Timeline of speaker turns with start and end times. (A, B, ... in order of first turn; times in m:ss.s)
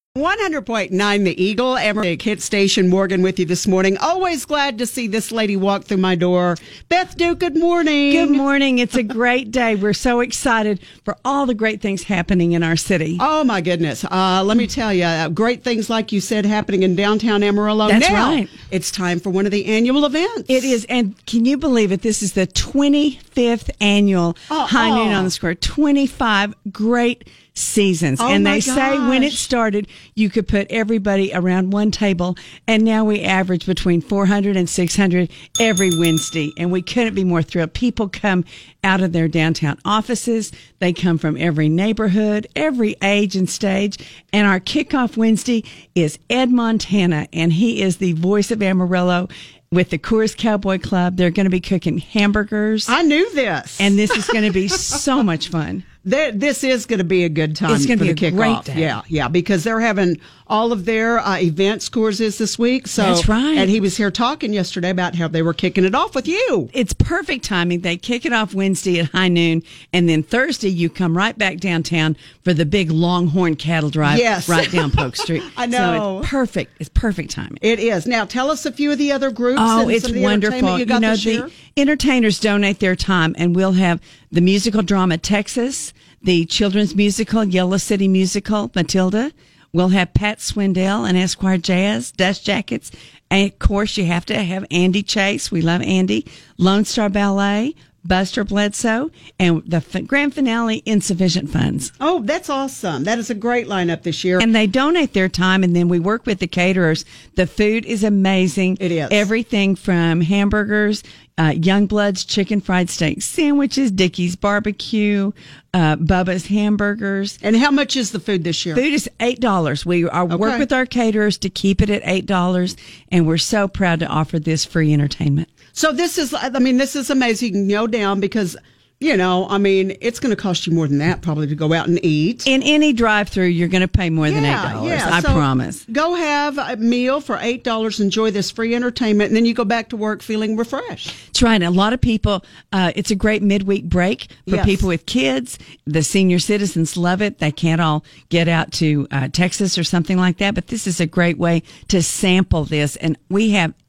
0:00.2-0:08.4 A
0:08.1-0:13.2 B
0:13.2-0:20.8 A
0:17.8-0:18.5 B
0:20.5-0:52.9 B
0:24.5-0:25.3 A
0:28.2-0:29.4 A
0:52.9-0:54.3 A
0:53.8-0:55.8 B
0:56.0-1:06.7 A
0:57.7-0:59.0 B
1:03.0-1:03.7 B
1:06.7-1:17.6 B
1:14.0-1:16.3 A
1:17.6-1:21.5 A
1:19.6-1:41.9 B
1:42.0-1:44.5 A
1:44.4-1:57.4 B
1:48.8-1:49.3 A
1:57.4-1:58.8 A
1:58.7-2:05.5 B
2:00.3-2:00.7 A
2:05.7-2:12.5 A
2:12.4-2:15.8 B
2:14.2-2:21.1 A
2:21.3-2:33.7 B
2:24.5-2:24.9 A